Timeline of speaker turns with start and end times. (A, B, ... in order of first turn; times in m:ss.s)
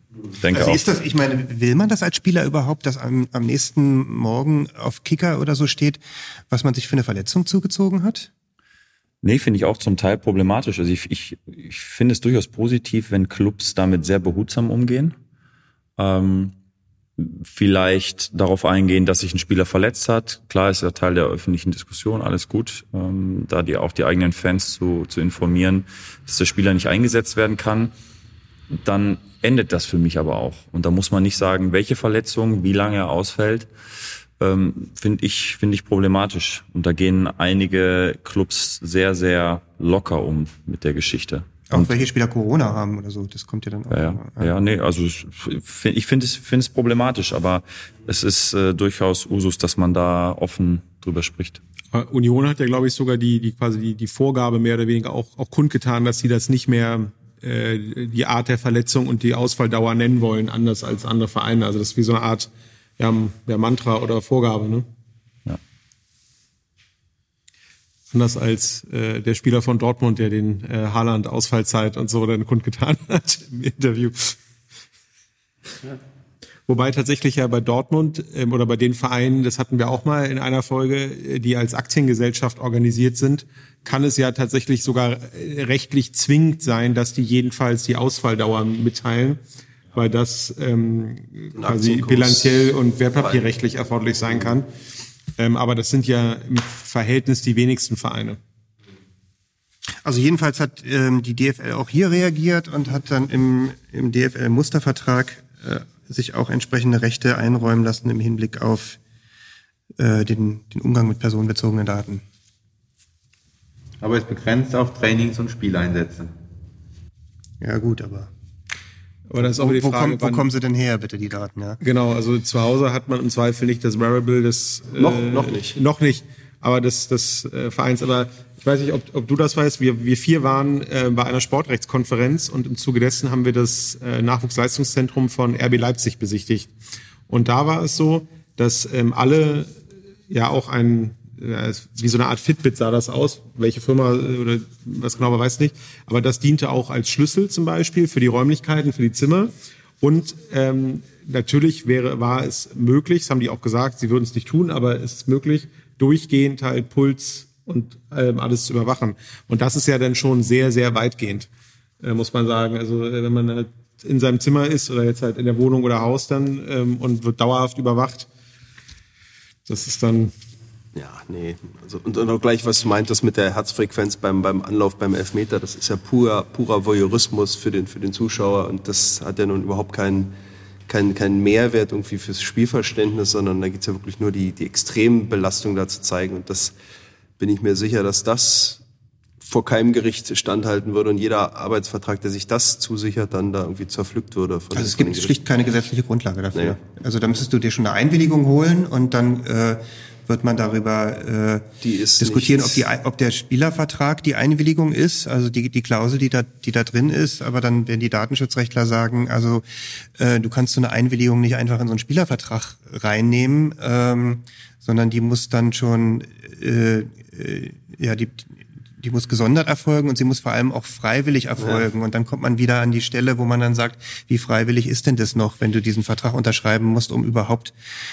0:00.4-0:00.8 A
0:00.5-0:08.3 B
0:09.2-0:15.2 A
0:16.0-0:16.6 A
0:17.2-0:27.9 A
0:28.7-0:33.7 A
0:34.4-0:42.0 A
0:41.7-0:44.5 B
0:43.9-0:51.6 A
0:51.9-1:04.9 C
1:08.1-1:14.4 C
1:16.7-1:29.4 C
1:29.9-1:34.7 C
1:31.6-1:33.4 D
1:35.4-1:38.4 C
1:40.0-1:49.0 B
1:50.0-1:52.2 B
1:54.0-1:56.3 E
1:57.6-1:58.3 B
1:59.3-2:00.5 C
1:59.5-2:01.8 B
2:01.8-2:16.7 C
2:05.0-2:05.8 D
2:17.3-2:19.7 C
2:20.3-2:41.5 C
2:42.0-2:48.3 C
2:49.7-2:50.3 C
2:51.0-3:00.3 D
3:00.9-3:06.8 D
3:07.4-3:08.8 D
3:09.4-3:15.4 D
3:14.7-3:21.7 B
3:21.8-3:22.9 D
3:22.2-3:47.8 B